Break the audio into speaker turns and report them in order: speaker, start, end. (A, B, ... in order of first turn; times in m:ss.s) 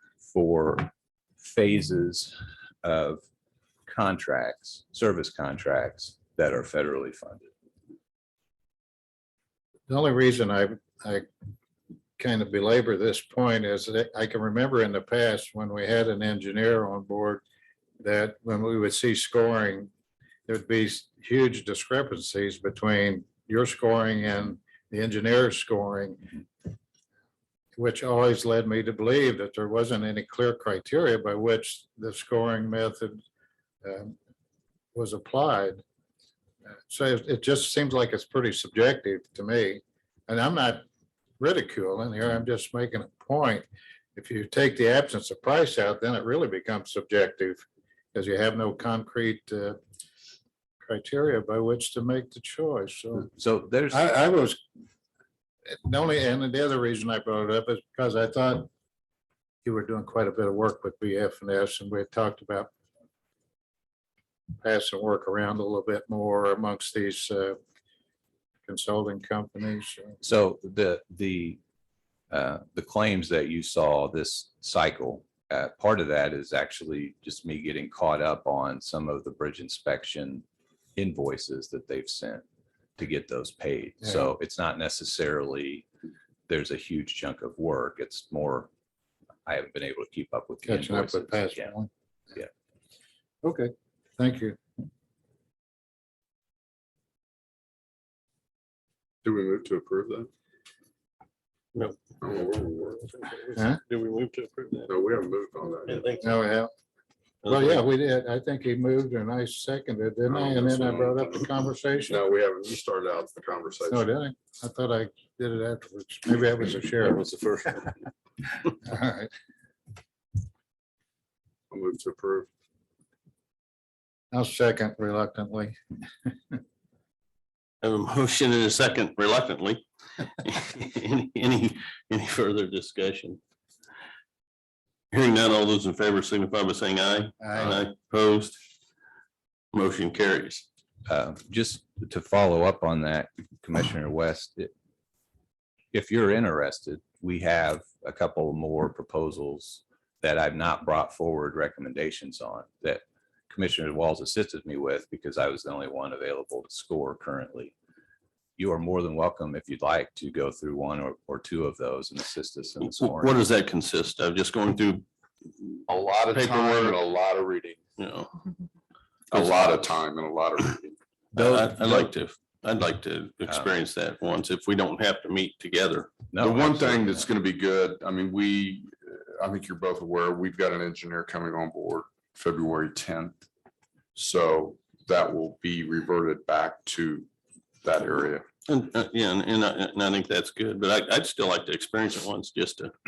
0:00.2-0:03.2 A
0:03.9-0:07.5 A
0:09.9-0:11.3 B
0:12.2-0:17.4 B
0:18.0-0:19.9 B
0:20.5-0:26.4 B
0:27.8-0:33.2 B
0:33.8-0:34.1 B
0:34.9-0:35.8 B
0:36.9-0:40.8 B
0:41.4-0:47.6 B
0:48.1-0:49.8 B
0:50.8-0:53.3 B
0:53.4-0:54.0 A
0:53.9-0:54.6 B
0:55.7-0:58.7 B
0:59.6-1:02.7 B
1:04.6-1:07.6 B
1:08.6-1:10.2 B
1:10.2-1:11.6 A
1:12.3-1:20.4 A
1:21.0-1:22.4 A
1:23.0-1:25.9 A
1:26.5-1:28.7 A
1:29.4-1:31.7 A
1:30.6-1:31.9 B
1:33.4-1:34.6 B
1:39.2-1:40.3 C
1:41.7-1:42.4 D
1:42.2-1:43.1 C
1:43.0-1:44.9 D
1:44.9-1:46.0 C
1:45.9-1:46.4 D
1:46.2-1:46.7 B
1:47.4-1:47.8 D
1:47.4-1:52.2 B
1:50.3-1:54.1 C
1:53.9-1:57.2 B
1:57.0-1:57.9 D
1:58.8-1:59.3 B
2:01.7-2:02.5 C
2:04.3-2:05.8 B
2:07.8-2:09.8 D
2:10.4-2:13.4 D
2:15.1-2:18.6 D
2:17.4-2:17.8 B
2:19.7-2:20.6 D
2:21.1-2:24.7 A
2:25.9-2:37.7 A
2:38.6-2:43.4 A
2:42.8-2:45.0 D
2:45.9-2:47.8 C
2:46.3-2:47.0 D
2:48.0-2:48.3 D
2:49.3-2:51.0 C
2:49.3-2:49.9 D
2:51.3-2:56.2 D
2:51.3-2:52.1 A
2:56.3-2:57.3 A
2:56.4-3:03.4 C
3:04.2-3:07.3 C
3:07.8-3:08.4 C
3:08.7-3:12.9 D